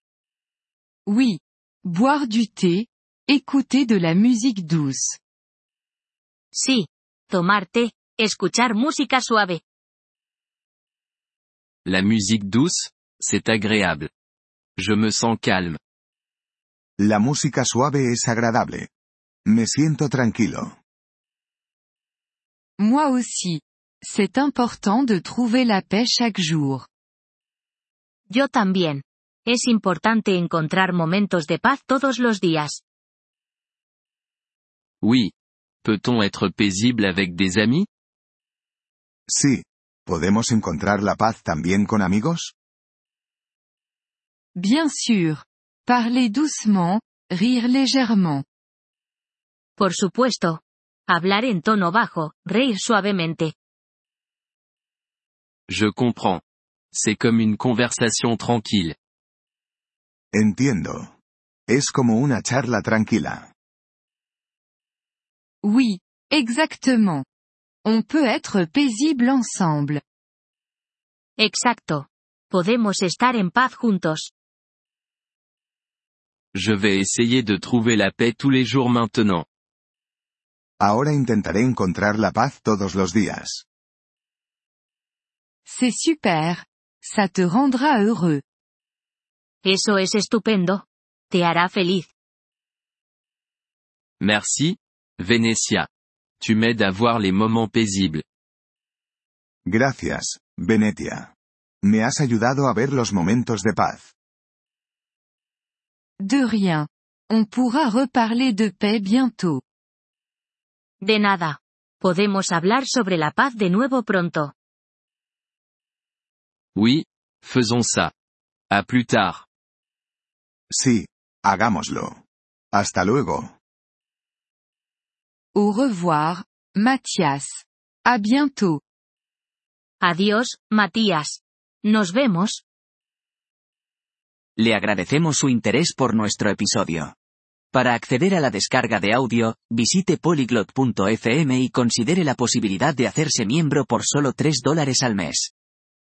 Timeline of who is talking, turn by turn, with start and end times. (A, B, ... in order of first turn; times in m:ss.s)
0:01.1-0:05.2 A
0:06.5-0:09.6 B
0:11.9-0:14.1 C
0:14.8-0:15.8 C
0:17.0-0:18.9 D
0:19.5-0:20.8 D
0:22.8-0:26.9 A
0:28.3-0:32.8 B
0:35.0-0:35.3 C
0:35.8-0:37.9 C
0:39.3-0:42.5 D
0:44.6-0:48.4 A
0:49.8-0:53.5 B
0:55.7-0:56.4 C
0:56.9-0:59.0 C
1:00.3-1:01.1 D
1:01.7-1:03.5 D
1:05.6-1:07.2 A
1:07.8-1:10.0 A
1:11.4-1:14.3 B
1:16.5-1:19.4 C
1:20.8-1:23.6 D
1:25.7-1:28.4 A
1:29.6-1:32.1 B
1:34.2-1:35.9 C
1:36.4-1:38.2 C
1:39.7-1:44.1 D
1:46.2-1:49.6 A
1:51.0-1:54.5 B
1:56.8-1:58.1 C
1:58.7-1:59.5 C
2:00.7-2:02.2 D
2:02.7-2:03.6 D
2:05.5-2:08.8 A
2:10.0-2:12.6 B
2:14.6-2:17.1 E
2:17.7-2:25.5 E